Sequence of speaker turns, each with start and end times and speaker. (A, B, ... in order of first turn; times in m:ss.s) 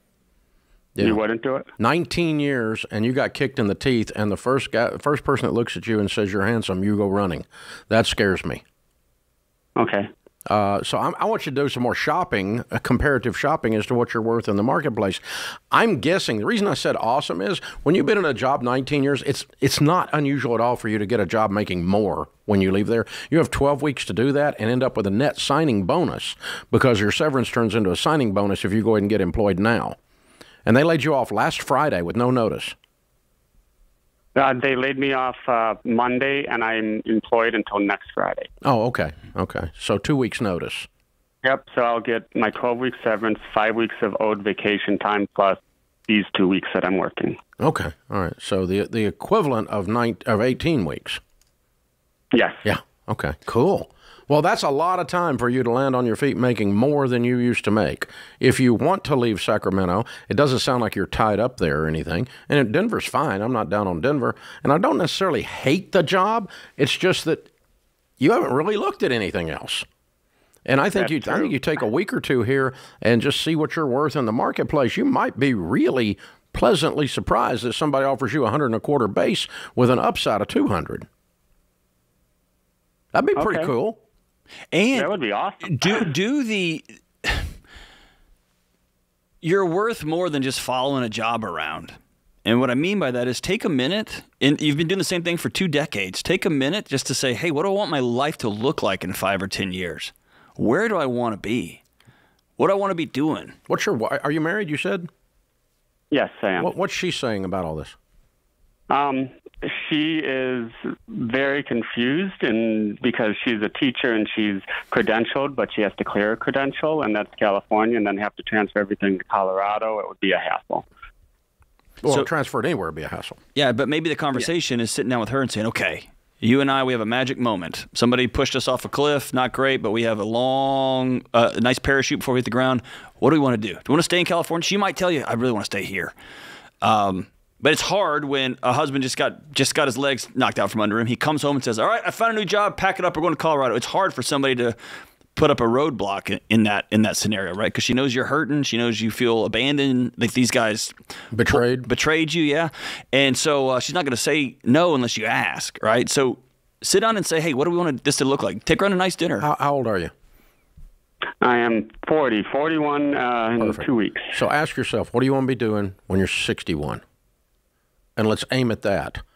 0:01.0-0:01.2 A
0:01.0-0:01.7 B
0:01.8-0:08.6 A
0:09.8-0:10.1 B
0:10.5-0:30.0 A
0:30.7-0:32.8 A
0:34.4-0:38.5 B
0:38.6-0:40.9 A
0:41.4-0:47.4 B
0:47.6-0:51.2 A
0:52.3-0:52.6 B
0:52.6-1:07.5 A
1:08.2-1:09.9 A
1:10.6-1:21.1 A
1:11.0-1:11.5 B
1:23.1-1:24.0 A
1:23.4-1:23.7 B
1:24.7-1:25.1 C
1:24.9-1:26.1 B
1:25.6-1:27.5 C
1:29.4-1:41.8 C
1:42.6-1:43.6 C
1:43.7-1:45.1 A
1:46.1-1:46.7 B
1:46.6-1:48.0 A
1:48.9-2:00.8 B
2:02.0-2:03.4 A
2:03.6-2:16.1 C
2:16.8-2:24.8 C
2:25.4-2:31.0 C
2:31.3-2:31.9 A
2:31.5-2:39.5 C
2:39.4-2:40.1 A
2:41.4-2:44.3 B
2:43.6-2:47.0 A
2:48.2-2:49.2 A